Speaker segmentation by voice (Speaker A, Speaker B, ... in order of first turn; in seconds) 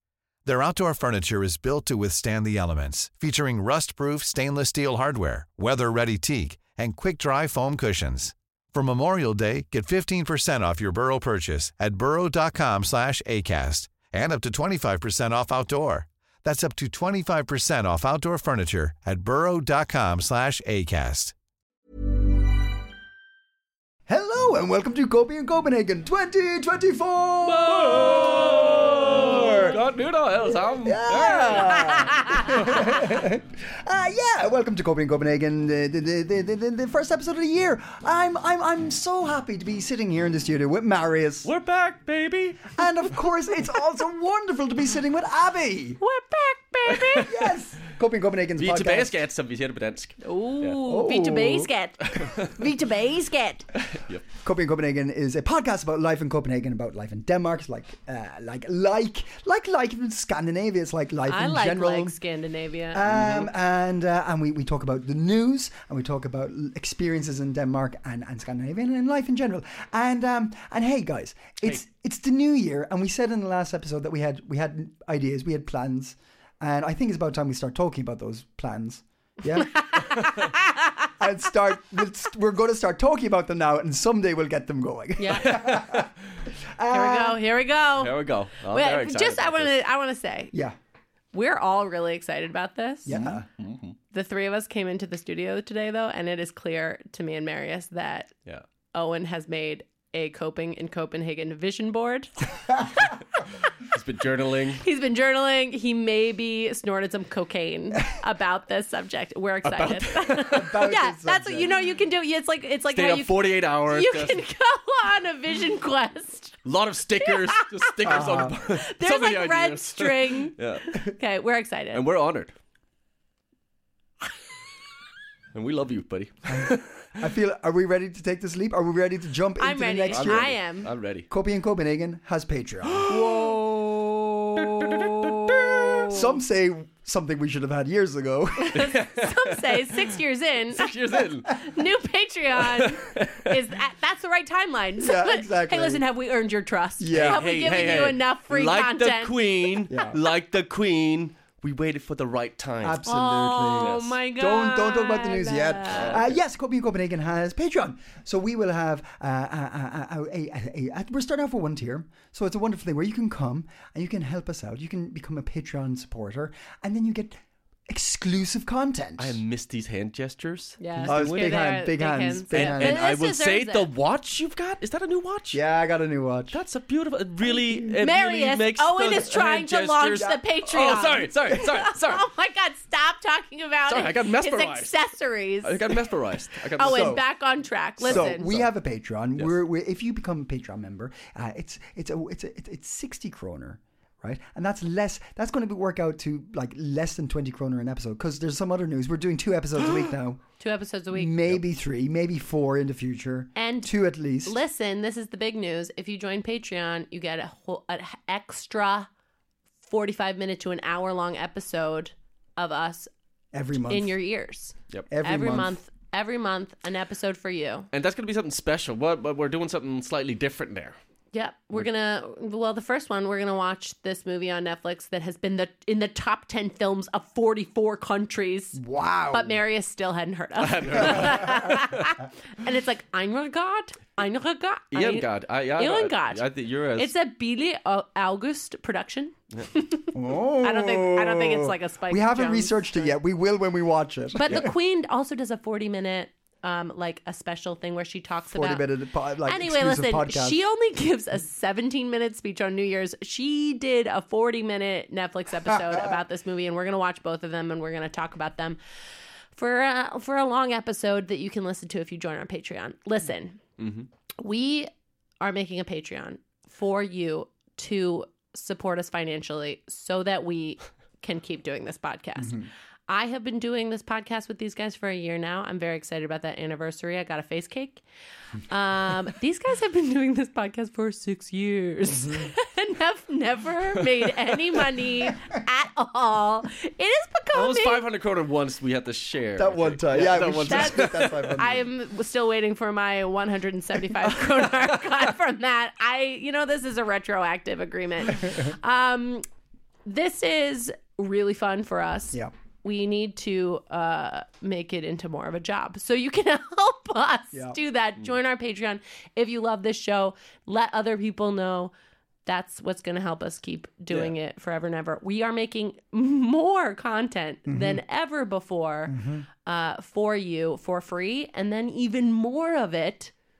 Speaker A: 0.5-21.3
Speaker B: 24.1-29.8, 30.5-41.5, 42.8-46.0, 47.2-49.1, 50.8-51.7, 54.4-62.2, 62.9-80.3, 81.2-86.1, 86.8-87.4, 93.1-93.5, 110.4-111.7, 118.0-118.5, 126.5-130.5, 131.3-138.9, 145.0-146.0, 147.0-148.1, 149.9-150.2, 152.8-169.4, 171.0-173.1, 175.5-176.6, 177.5-178.0, 186.8-187.2, 188.0-200.4, 201.1-204.6, 213.5-214.2, 215.1-215.8, 228.7-229.6, 240.1-244.7, 248.5-250.6, 272.4-272.7, 282.1-282.5, 289.6-291.9, 307.5-307.8, 317.7-318.0, 319.1-319.5
Speaker C: 27.4-31.8, 41.4-42.8, 46.9-47.3, 48.6-50.8, 52.1-52.6, 53.8-54.3, 63.1-63.5, 85.4-86.1, 88.0-89.8, 93.1-94.0, 103.9-104.8, 109.7-110.7, 112.9-114.4, 116.7-120.9, 121.9-122.5, 125.5-127.2, 130.1-131.3, 132.8-133.6, 134.6-136.1, 138.8-139.9, 140.8-141.6, 142.6-143.6, 147.1-153.0, 153.8-154.2, 155.9-156.4, 169.2-171.6, 172.5-175.6, 176.5-182.3, 183.9-185.0, 185.6-187.2, 188.0-188.7, 217.9-221.0, 230.6-232.1, 234.9-237.1, 263.8-264.1, 287.5-291.5
Speaker D: 31.5-32.8, 46.0-47.3, 50.2-53.6, 61.3-63.0, 79.7-81.1, 85.2-85.6, 86.9-88.2, 88.7-90.5, 91.3-93.2, 94.1-98.3, 98.9-103.4, 104.8-116.5, 117.2-122.0, 129.6-130.9, 138.6-149.8, 153.1-156.2, 170.8-173.9, 178.0-186.0, 186.8-188.5, 200.6-201.3, 203.6-203.9, 204.4-209.1, 209.8-213.1, 213.9-217.9, 221.3-228.8, 229.3-236.4, 237.0-243.1, 244.4-248.9, 249.4-258.8, 259.6-263.6, 264.4-278.0, 278.7-288.1, 290.6-299.4, 300.1-311.9, 312.5-323.3